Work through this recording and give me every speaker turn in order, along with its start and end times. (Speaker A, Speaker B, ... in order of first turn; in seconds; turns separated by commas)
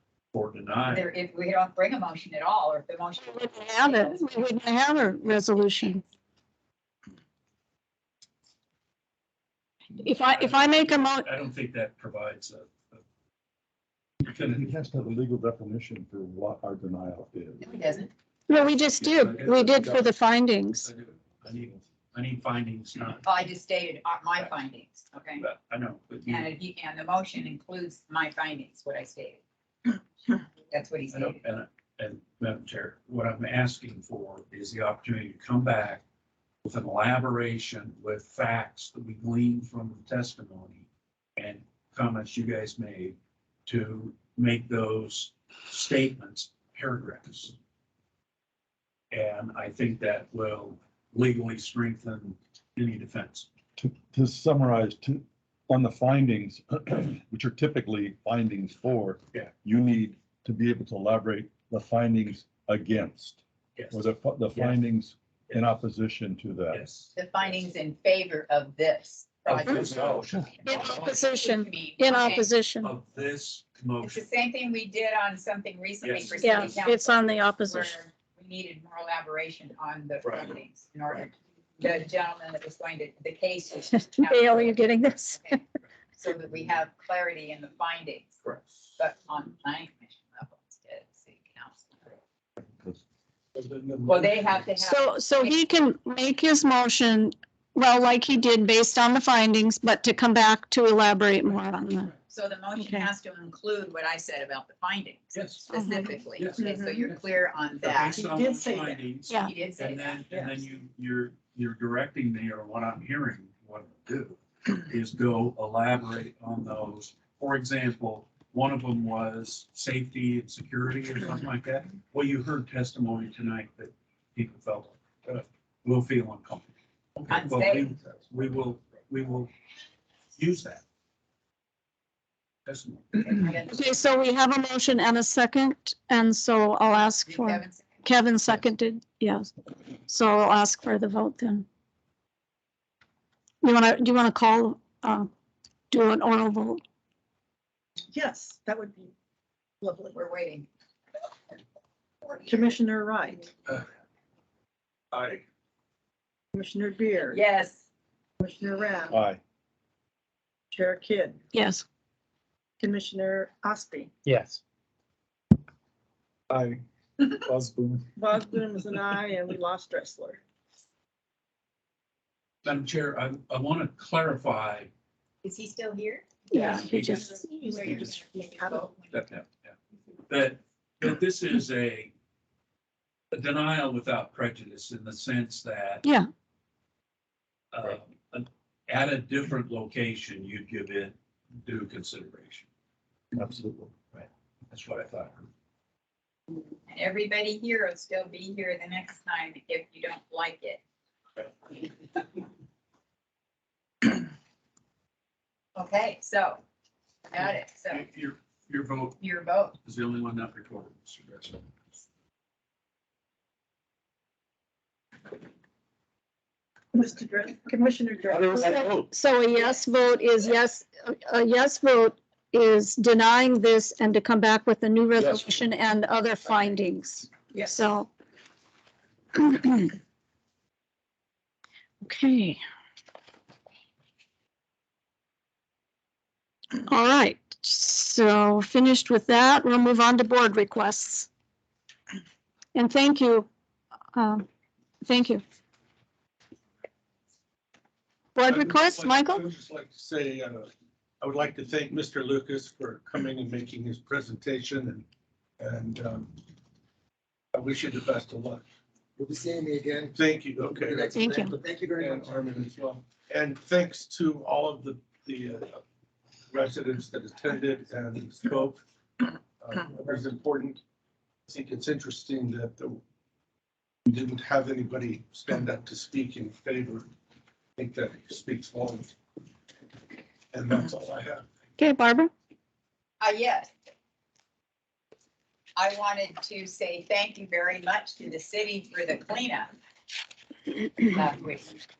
Speaker A: 0.3-1.1, Speaker B: 0.9-4.3, Speaker C: 3.2-6.0, Speaker C: 10.0-11.3, Speaker A: 10.2-13.0, Speaker A: 14.2-14.7, Speaker D: 14.3-17.6, Speaker B: 17.6-18.1, Speaker C: 18.5-20.9, Speaker A: 18.8-20.1, Speaker A: 20.7-23.3, Speaker B: 23.2-25.4, Speaker A: 25.4-26.5, Speaker B: 26.3-29.4, Speaker B: 30.7-31.4, Speaker A: 31.1-36.0, Speaker A: 36.6-40.9, Speaker A: 41.4-47.5, Speaker A: 49.1-53.5, Speaker D: 53.8-66.8, Speaker A: 63.8-64.8, Speaker A: 66.7-67.6, Speaker B: 67.2-72.5, Speaker A: 69.5-71.1, Speaker D: 69.8-70.2, Speaker C: 70.6-72.9, Speaker A: 72.8-74.2, Speaker B: 74.0-85.6, Speaker A: 76.0-76.9, Speaker C: 76.4-78.0, Speaker A: 80.2-80.6, Speaker C: 84.1-85.6, Speaker B: 86.2-88.4, Speaker A: 88.4-88.9, Speaker B: 89.0-92.0, Speaker E: 93.5-94.6, Speaker B: 94.1-95.6, Speaker C: 94.8-102.1, Speaker B: 102.3-110.4, Speaker A: 105.3-105.7, Speaker C: 105.7-106.1, Speaker F: 106.6-107.0, Speaker A: 107.8-129.5, Speaker F: 108.2-108.9, Speaker B: 127.3-127.9, Speaker A: 130.4-130.8, Speaker A: 132.7-133.5, Speaker B: 133.2-134.0, Speaker C: 133.7-139.5, Speaker B: 136.9-138.0, Speaker C: 140.1-141.7, Speaker C: 143.6-145.3, Speaker C: 145.9-146.8, Speaker F: 148.1-149.1, Speaker F: 149.8-150.2, Speaker B: 150.1-150.7, Speaker B: 152.2-152.8, Speaker F: 152.5-153.5, Speaker E: 155.1-155.4, Speaker F: 156.5-157.4, Speaker B: 157.2-157.8, Speaker F: 158.4-159.2, Speaker D: 159.1-159.4, Speaker F: 160.7-161.4, Speaker C: 161.5-161.8, Speaker F: 162.8-164.1, Speaker D: 166.5-166.8, Speaker D: 167.5-168.1, Speaker F: 168.2-170.4, Speaker A: 172.6-174.9, Speaker B: 175.4-179.1, Speaker C: 176.5-177.5, Speaker F: 176.7-178.9, Speaker A: 176.9-177.3, Speaker A: 179.1-179.8, Speaker A: 180.3-182.1, Speaker A: 183.3-186.1, Speaker A: 187.7-192.7, Speaker D: 193.3-193.9, Speaker A: 194.1-195.5, Speaker B: 196.9-200.8, Speaker B: 205.8-206.6, Speaker B: 207.3-208.1, Speaker A: 207.9-209.2, Speaker B: 209.2-209.8, Speaker A: 209.8-211.6, Speaker F: 216.9-218.6, Speaker C: 218.4-228.1, Speaker F: 227.5-227.8, Speaker C: 229.3-229.9, Speaker C: 232.0-232.6, Speaker C: 236.9-241.3, Speaker C: 242.8-243.5, Speaker C: 244.1-244.4, Speaker C: 245.0-245.4, Speaker C: 248.3-249.4, Speaker E: 248.4-250.7, Speaker E: 251.2-255.1, Speaker E: 255.6-256.4, Speaker E: 257.5-258.6, Speaker G: 259.2-260.1, Speaker E: 260.1-265.8, Speaker G: 260.7-262.4, Speaker C: 261.1-261.6, Speaker E: 266.5-268.8, Speaker E: 269.6-270.8, Speaker E: 271.5-273.0, Speaker E: 274.1-277.1, Speaker E: 277.8-279.1, Speaker E: 280.5-281.4, Speaker C: 281.8-282.3, Speaker B: 283.2-283.7, Speaker B: 285.8-289.7, Speaker B: 291.1-291.8